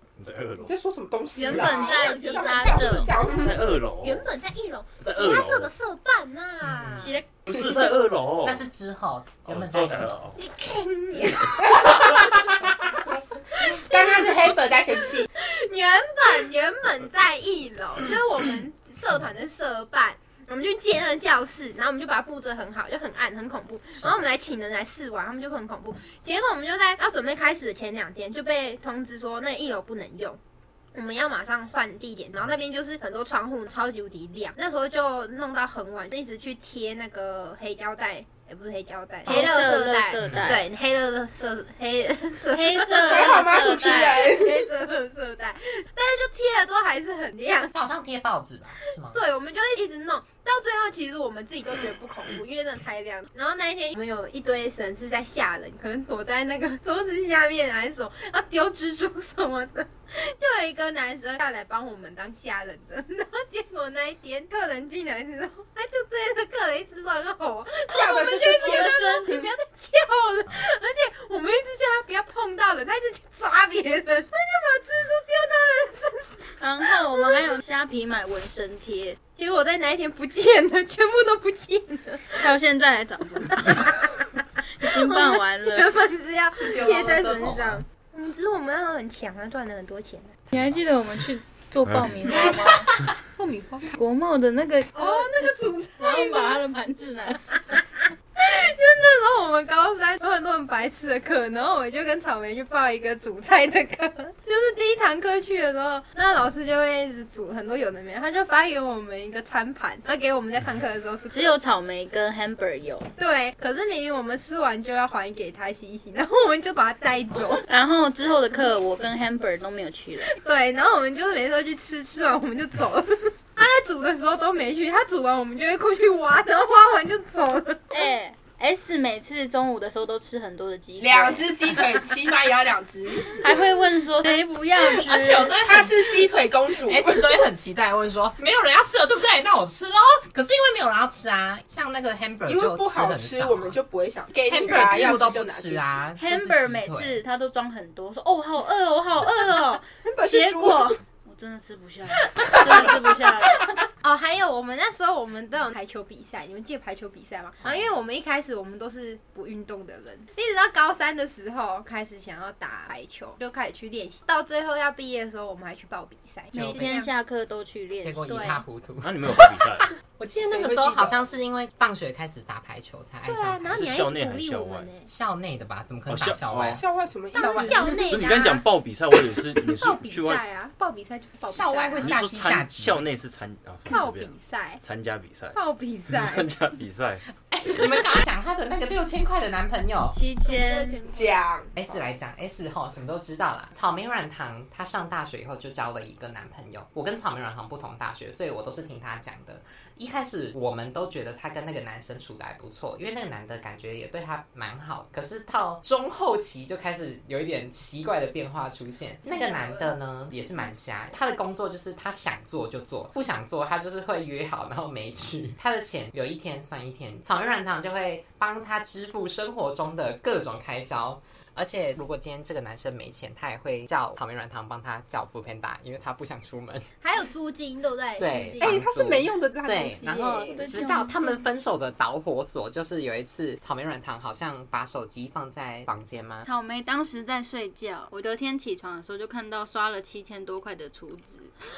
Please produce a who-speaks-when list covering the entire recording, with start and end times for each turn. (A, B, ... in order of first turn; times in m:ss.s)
0:00.2-0:00.8 A
0:00.6-0:03.7 B
0:01.4-0:03.2 C
0:01.4-0:07.2 D
0:03.3-0:04.3 A
0:05.0-0:05.7 A
0:06.6-0:07.2 E
0:07.0-0:07.3 C
0:07.4-0:08.6 A
0:08.4-0:10.2 E
0:09.4-0:10.4 A
0:10.4-0:12.1 D
0:11.6-0:12.5 B
0:13.6-0:14.5 D
0:13.7-0:15.3 B
0:15.4-0:30.4 D
0:30.9-0:47.7 D
0:39.2-0:40.6 C
0:40.2-0:40.6 E
0:42.5-0:44.3 C
0:43.0-0:44.7 B
0:47.7-0:49.2 E
0:49.0-1:17.4 D
1:07.9-1:09.5 B
1:08.4-1:09.3 C
1:16.6-1:19.2 C
1:19.4-1:22.5 D
1:22.4-1:24.0 C
1:23.6-1:24.2 D
1:24.8-1:25.9 C
1:24.9-1:30.4 D
1:26.5-1:27.8 E
1:30.5-1:32.9 C
1:31.8-1:32.4 A
1:33.2-1:34.0 D
1:33.9-1:37.4 C
1:34.9-1:36.6 D
1:38.4-1:51.5 D
1:51.3-1:53.1 C
1:53.2-1:57.6 D
1:57.7-2:00.3 C
2:00.2-2:08.1 D
2:07.9-2:11.8 C
2:11.0-2:13.5 B
2:13.3-2:15.6 C
2:14.8-2:23.8 E
2:15.6-2:17.3 B
2:22.4-2:26.0 B
2:24.4-2:27.2 E
2:26.2-2:33.7 C
2:30.0-2:31.0 B
2:32.4-2:33.0 B
2:32.5-2:32.9 D
2:34.0-2:47.1 D
2:37.6-2:37.9 E
2:46.5-2:46.9 E
2:46.5-2:48.5 C
2:48.0-2:49.2 E
2:48.3-2:48.6 D
2:49.0-2:49.9 A
2:50.2-2:53.7 E
2:50.4-2:51.2 B
2:53.2-2:55.1 D
2:53.7-2:54.9 A
2:55.0-2:56.8 E
2:56.1-2:56.8 A
2:56.8-2:58.0 B
2:57.3-2:58.6 D
2:58.0-3:00.4 A
2:59.6-3:02.1 D
3:01.5-3:03.0 E
3:02.0-3:05.6 A
3:03.9-3:04.8 D
3:05.5-3:06.5 D
3:06.1-3:07.2 A
3:07.5-3:10.2 E
3:10.1-3:11.0 C
3:10.4-3:12.0 B
3:11.8-3:46.8 E
3:29.2-3:29.9 D
3:47.0-3:48.8 D
3:48.2-3:56.5 E
3:48.6-3:50.8 B
3:50.5-3:51.5 C
3:56.4-4:01.6 C